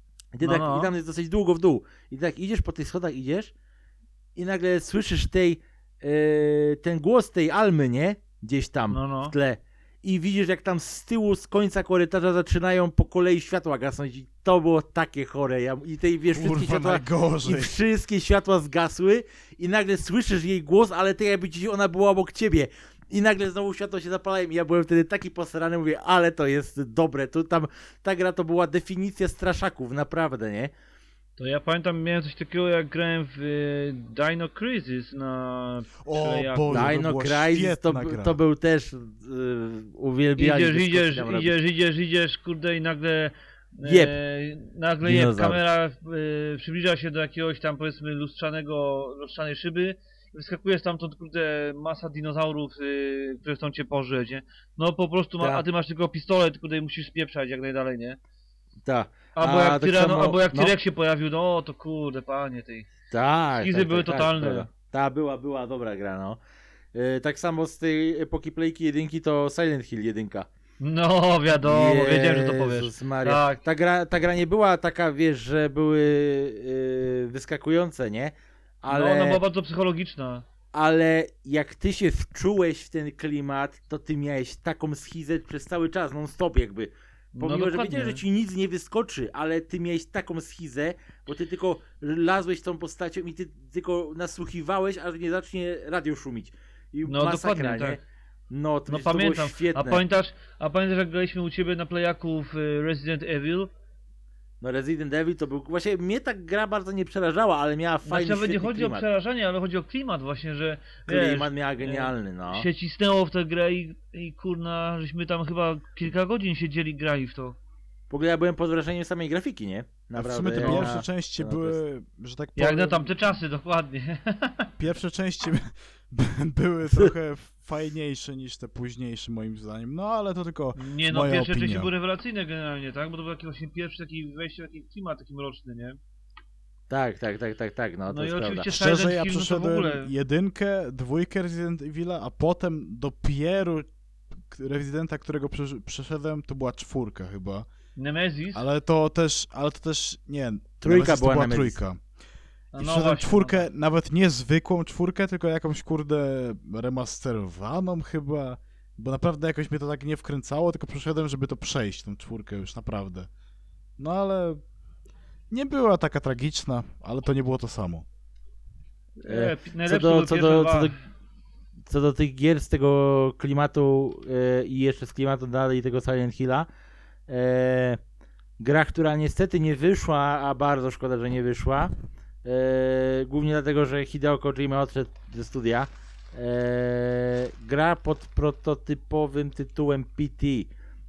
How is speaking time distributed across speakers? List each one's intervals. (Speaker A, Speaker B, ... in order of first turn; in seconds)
Speaker A: 0.3-3.5, 4.3-30.7, 36.7-41.6, 43.8-44.1, 45.0-45.6, 58.9-60.7, 63.1-66.4, 66.9-70.5, 71.6-79.4, 80.7-100.0, 104.6-109.0, 111.0-112.7, 118.1-121.8, 136.9-138.7, 150.8-151.8, 169.2-171.0, 171.9-176.7, 177.3-178.0, 178.6-181.9, 182.4-190.7
Speaker B: 0.4-0.9, 8.9-9.3, 31.4-36.9, 40.4-58.2, 59.4-62.9, 63.6-64.7, 70.8-73.6, 78.9-80.4, 87.3-88.2, 97.0-98.0, 98.9-103.7, 108.0-117.6, 120.6-120.9, 122.6-124.7, 130.8-136.0, 138.1-140.1, 147.9-148.6, 152.7-153.7, 169.2-170.9
Speaker C: 16.3-17.7, 36.0-38.4, 120.1-123.1, 124.8-131.9, 138.7-143.9, 144.5-147.7, 148.5-152.0, 152.8-163.3, 164.0-164.6, 165.5-168.0